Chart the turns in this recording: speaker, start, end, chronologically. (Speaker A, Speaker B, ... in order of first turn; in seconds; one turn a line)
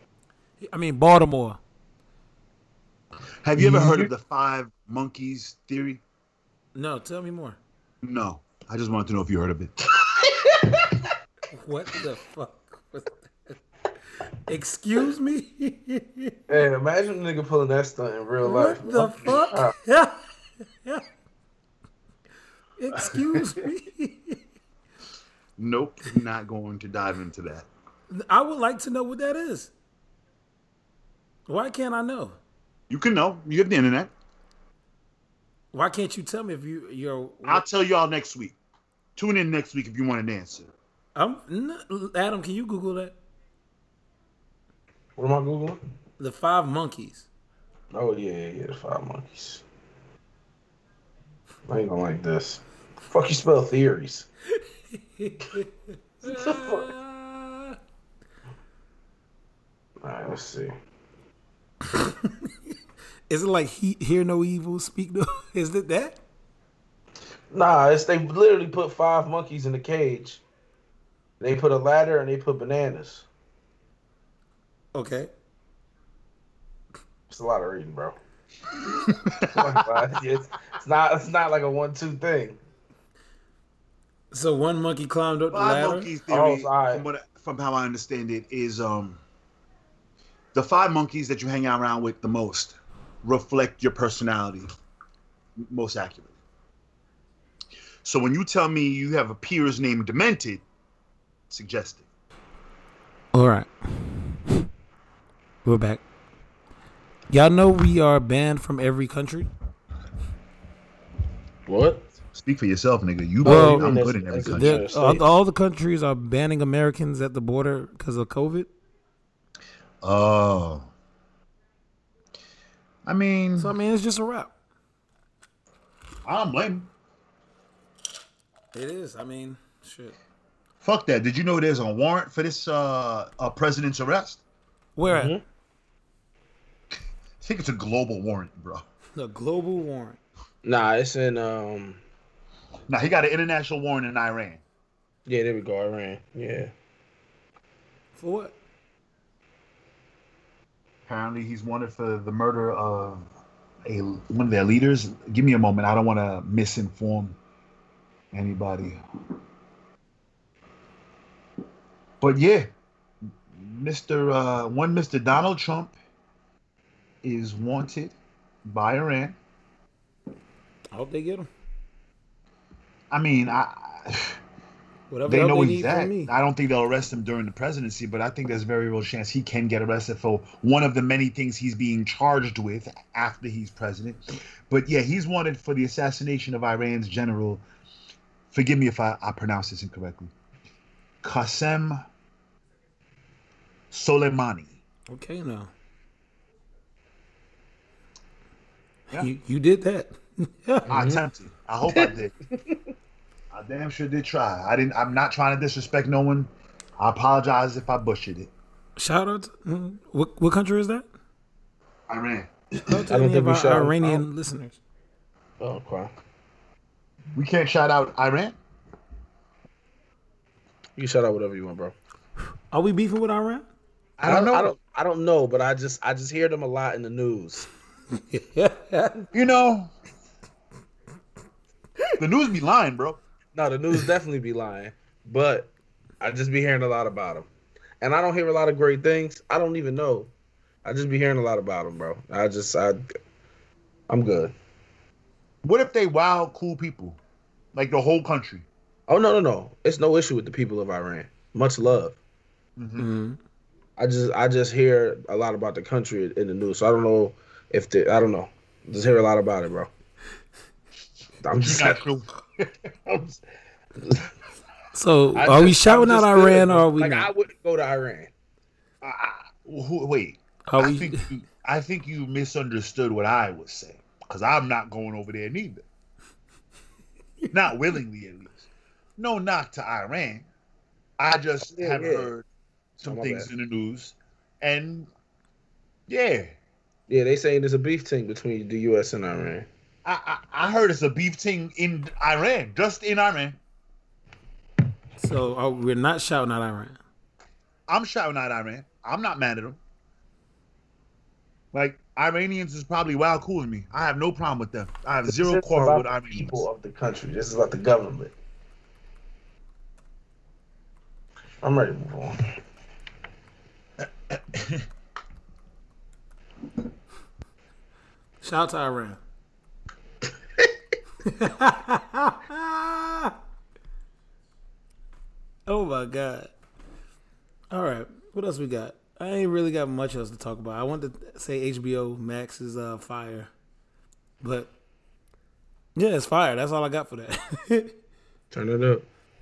Speaker A: 0.6-1.6
Speaker B: 3.4-6.0
Speaker A: 3.6-4.0
Speaker A: 6.7-7.6
Speaker B: 8.0-9.7
Speaker C: 10.2-10.7
Speaker A: 11.5-13.5
Speaker A: 14.4-16.4
Speaker C: 16.5-19.7
Speaker A: 18.4-20.2
Speaker A: 22.8-24.4
Speaker B: 23.1-23.4
Speaker B: 25.6-27.7
Speaker A: 28.1-29.7
Speaker A: 31.5-32.4
Speaker B: 32.9-34.1
Speaker A: 35.7-37.6
Speaker B: 37.4-38.6
Speaker B: 39.1-40.7
Speaker A: 41.1-43.1
Speaker C: 45.2-45.8
Speaker A: 46.2-47.3
Speaker C: 47.9-49.6
Speaker C: 51.7-54.3
Speaker A: 55.0-55.7
Speaker A: 56.2-57.8
Speaker C: 56.2-56.9
Speaker C: 60.0-60.7
Speaker A: 61.9-62.5
Speaker A: 63.3-66.2
Speaker C: 67.5-70.4
Speaker C: 71.4-73.3
Speaker A: 74.9-75.3
Speaker C: 77.3-78.2
Speaker B: 78.9-79.8
Speaker C: 79.4-82.6
Speaker A: 84.3-86.1
Speaker B: 85.5-89.2
Speaker C: 86.3-87.0
Speaker B: 90.5-94.7
Speaker B: 95.6-96.3
Speaker B: 98.0-100.6
Speaker B: 101.5-102.0
Speaker A: 103.3-104.7
Speaker A: 105.6-106.0
Speaker A: 107.3-109.5
Speaker C: 111.7-112.1
Speaker B: 112.3-114.8
Speaker C: 113.4-115.4
Speaker A: 113.4-113.9
Speaker A: 114.5-118.7
Speaker B: 120.0-120.9
Speaker B: 123.0-123.7
Speaker A: 123.6-124.5
Speaker B: 126.2-126.9
Speaker A: 128.7-130.2
Speaker B: 130.8-134.4
Speaker A: 134.9-135.4
Speaker C: 135.1-135.4
Speaker B: 137.4-138.8
Speaker A: 139.1-140.2
Speaker C: 140.6-142.0
Speaker B: 142.9-144.6
Speaker C: 145.2-146.7
Speaker A: 148.2-148.5
Speaker B: 151.1-153.3
Speaker B: 153.8-157.4
Speaker B: 158.3-159.0
Speaker B: 162.2-162.7
Speaker B: 163.5-165.9
Speaker B: 167.2-168.1
Speaker B: 168.7-169.4
Speaker A: 170.9-171.5
Speaker B: 173.1-174.4
Speaker A: 175.1-176.3
Speaker B: 175.2-187.6
Speaker B: 188.5-190.3
Speaker B: 191.2-192.0
Speaker B: 193.9-194.8
Speaker A: 195.1-195.7
Speaker A: 199.1-200.9
Speaker C: 200.8-201.2
Speaker B: 200.9-202.3
Speaker B: 203.5-208.5
Speaker A: 209.0-211.1
Speaker B: 212.1-212.5
Speaker A: 212.9-214.8
Speaker C: 213.1-214.2
Speaker C: 215.6-216.1
Speaker B: 217.3-218.6
Speaker C: 221.0-221.9
Speaker A: 222.7-223.7
Speaker B: 224.2-224.7
Speaker C: 224.2-227.7
Speaker A: 228.2-229.2
Speaker B: 229.3-229.9
Speaker B: 232.2-233.2
Speaker C: 233.5-237.5
Speaker C: 238.0-240.3
Speaker C: 240.8-243.0
Speaker C: 244.1-244.5
Speaker B: 245.6-247.2
Speaker B: 247.7-248.7
Speaker C: 249.1-252.2
Speaker B: 252.8-253.1
Speaker A: 253.0-253.4
Speaker C: 254.0-259.9
Speaker C: 261.4-262.0
Speaker B: 261.5-262.3
Speaker C: 263.1-263.4
Speaker C: 264.0-264.3
Speaker A: 264.9-267.3
Speaker C: 265.4-268.3
Speaker B: 269.0-275.8
Speaker A: 270.7-271.3
Speaker B: 277.5-280.5
Speaker B: 281.2-282.4
Speaker C: 281.7-282.3
Speaker C: 283.0-283.5
Speaker B: 283.0-285.1
Speaker B: 286.1-286.5
Speaker C: 287.1-289.7
Speaker B: 290.0-293.6
Speaker A: 295.2-297.0
Speaker B: 297.9-299.8
Speaker B: 301.7-306.7
Speaker C: 305.2-308.3
Speaker C: 311.6-312.5
Speaker B: 314.3-314.8
Speaker A: 318.4-319.2
Speaker A: 321.2-323.3
Speaker A: 325.7-326.5
Speaker A: 327.7-333.5
Speaker A: 334.4-334.7
Speaker A: 335.9-337.9
Speaker C: 338.5-339.1